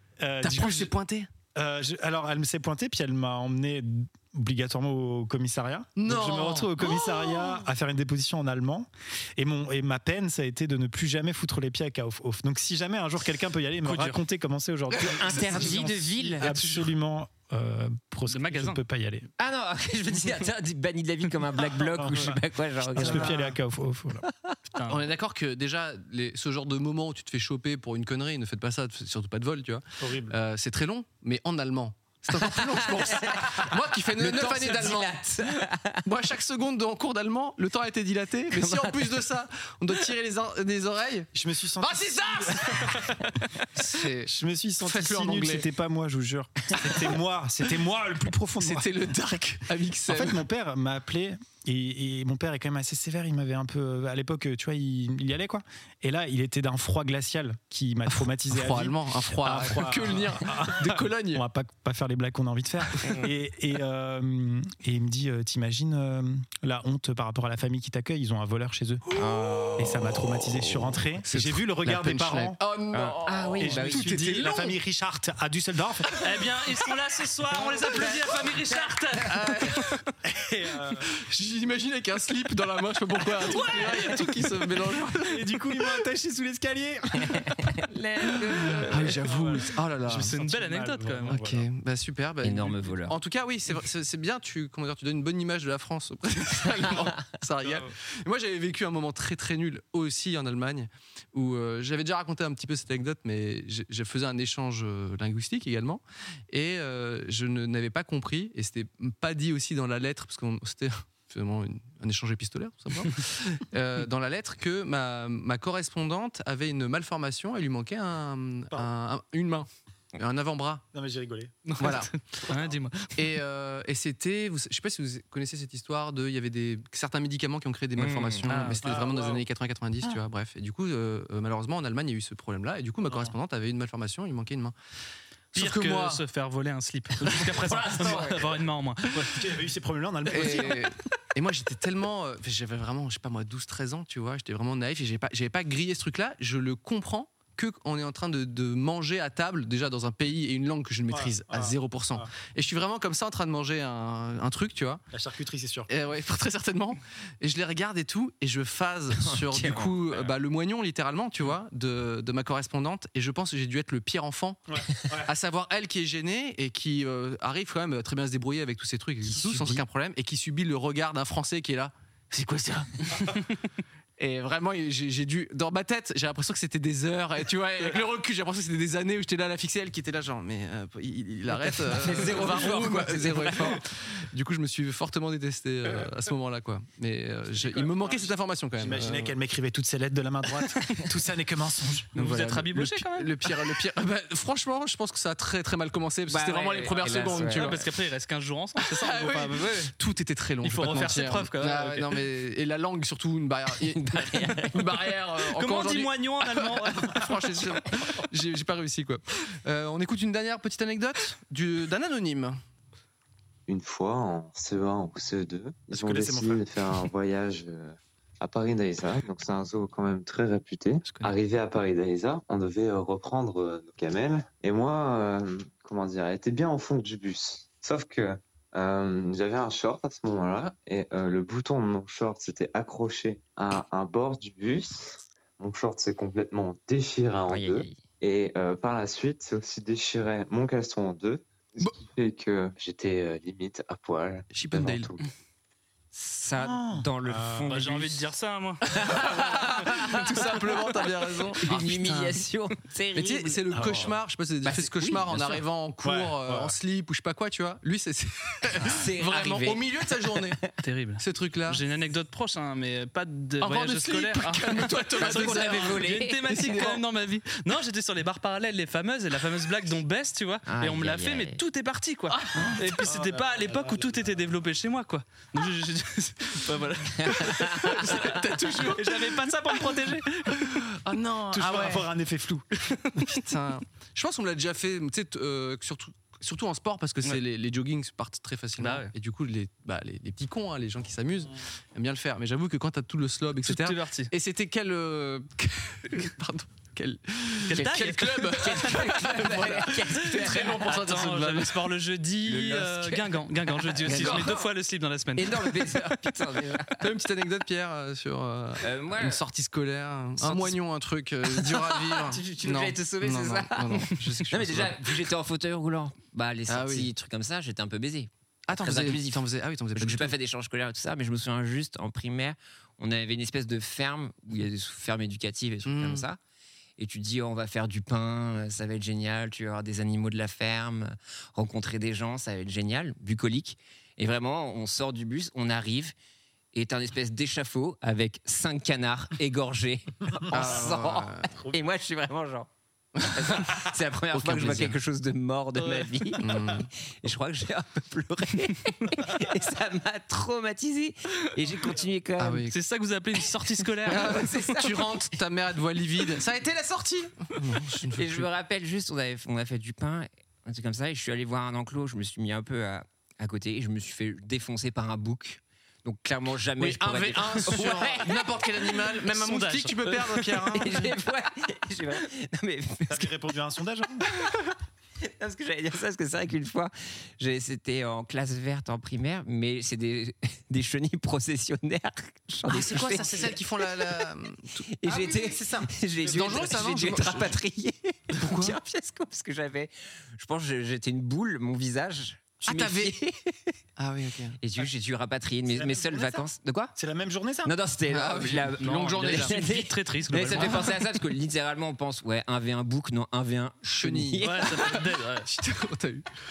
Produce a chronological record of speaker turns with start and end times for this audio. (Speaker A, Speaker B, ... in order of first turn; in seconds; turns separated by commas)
Speaker A: 0.2-0.9, Speaker B: 0.4-1.3, Speaker A: 1.5-19.3, Speaker B: 6.0-7.7, Speaker C: 13.8-14.2, Speaker B: 14.9-15.8, Speaker D: 15.1-16.6, Speaker C: 18.3-18.8, Speaker D: 19.4-23.4, Speaker A: 21.8-22.4, Speaker A: 22.9-24.2, Speaker D: 24.2-24.5, Speaker B: 24.9-35.3, Speaker A: 30.0-30.4, Speaker D: 32.3-36.0, Speaker B: 36.0-41.3, Speaker D: 38.5-39.2, Speaker A: 41.3-43.1, Speaker B: 41.8-43.1, Speaker B: 43.7-45.7, Speaker A: 44.2-48.9, Speaker B: 48.6-50.4, Speaker A: 50.1-69.0, Speaker B: 58.1-61.4, Speaker D: 69.2-69.8, Speaker B: 69.2-70.3, Speaker A: 69.8-72.6, Speaker B: 71.2-74.8, Speaker D: 72.9-74.2, Speaker A: 73.6-76.1, Speaker B: 76.1-76.9, Speaker C: 76.2-79.9, Speaker D: 78.6-79.2, Speaker B: 79.3-80.0, Speaker A: 80.2-81.1, Speaker B: 81.2-85.5, Speaker A: 85.2-87.4, Speaker D: 87.3-89.4, Speaker B: 88.8-90.3, Speaker A: 88.8-91.7, Speaker C: 90.1-91.4, Speaker B: 91.3-120.8, Speaker D: 92.4-93.2, Speaker A: 97.6-97.9, Speaker A: 120.9-121.5, Speaker C: 121.7-123.1, Speaker B: 121.8-122.1, Speaker B: 123.2-134.7, Speaker D: 128.0-128.5, Speaker C: 128.5-128.9, Speaker A: 128.8-129.4, Speaker A: 133.1-133.3, Speaker C: 135.5-139.4, Speaker B: 135.5-136.2, Speaker D: 137.5-138.6, Speaker A: 137.7-138.4, Speaker A: 139.1-140.9, Speaker B: 140.3-155.0, Speaker A: 151.1-152.3, Speaker A: 155.1-155.9, Speaker B: 155.9-164.6, Speaker D: 159.1-160.2, Speaker A: 164.7-165.3, Speaker B: 165.2-173.1, Speaker D: 169.3-169.8, Speaker B: 174.2-189.3, Speaker D: 181.7-183.8, Speaker A: 187.5-192.1, Speaker C: 192.1-193.6, Speaker B: 192.2-197.8, Speaker D: 196.3-197.9, Speaker C: 197.4-199.9, Speaker B: 198.8-212.6, Speaker C: 200.6-202.1, Speaker D: 203.8-205.1, Speaker C: 205.5-207.4, Speaker E: 213.7-245.2, Speaker A: 215.9-216.7, Speaker D: 237.5-238.0, Speaker B: 244.5-245.1, Speaker D: 246.1-248.3, Speaker A: 246.6-247.8, Speaker C: 247.7-249.0, Speaker B: 248.9-252.5, Speaker D: 248.9-250.2, Speaker D: 251.6-254.1, Speaker B: 253.1-260.6, Speaker A: 253.7-254.1, Speaker D: 254.6-255.6, Speaker A: 256.0-256.8, Speaker D: 258.8-260.7, Speaker C: 260.8-280.8, Speaker B: 261.2-261.8, Speaker B: 263.6-267.0, Speaker D: 265.2-266.8, Speaker D: 270.6-271.6, Speaker B: 272.3-272.8, Speaker A: 272.8-274.5, Speaker D: 277.2-278.1, Speaker B: 277.4-279.8, Speaker B: 280.6-282.1, Speaker A: 281.5-282.6, Speaker B: 283.3-301.8, Speaker C: 288.8-289.1, Speaker C: 293.6-294.3, Speaker C: 297.7-298.4, Speaker D: 297.7-301.0, Speaker C: 300.9-305.8, Speaker D: 302.4-304.7, Speaker B: 304.1-304.6, Speaker D: 305.3-307.1, Speaker B: 307.0-315.3, Speaker D: 308.8-309.4, Speaker D: 310.4-310.8, Speaker D: 311.4-319.4, Speaker B: 316.7-317.1, Speaker B: 318.7-320.4, Speaker D: 319.9-326.4, Speaker B: 325.8-326.3, Speaker D: 327.0-336.1, Speaker D: 336.7-342.7, Speaker A: 340.4-340.7, Speaker B: 340.5-341.5, Speaker A: 341.6-341.8, Speaker B: 343.2-345.0, Speaker D: 343.2-352.7, Speaker C: 345.8-346.1, Speaker B: 346.4-346.9, Speaker B: 352.4-352.7, Speaker C: 352.7-354.6, Speaker D: 354.1-355.3, Speaker B: 354.1-358.5, Speaker D: 358.1-369.1, Speaker B: 366.8-371.1, Speaker C: 369.3-370.6, Speaker D: 370.8-373.4, Speaker A: 373.1-374.2, Speaker D: 375.4-384.3, Speaker B: 382.6-384.9, Speaker D: 385.0-393.7, Speaker A: 385.1-386.7, Speaker B: 386.2-387.6, Speaker B: 388.3-388.8, Speaker B: 392.7-393.2, Speaker B: 394.0-394.6, Speaker D: 394.6-396.9, Speaker A: 395.7-396.4, Speaker A: 396.9-397.7, Speaker D: 397.6-405.1, Speaker B: 398.1-399.8, Speaker C: 398.8-401.0, Speaker B: 400.5-401.0, Speaker B: 403.8-406.3, Speaker C: 404.4-405.5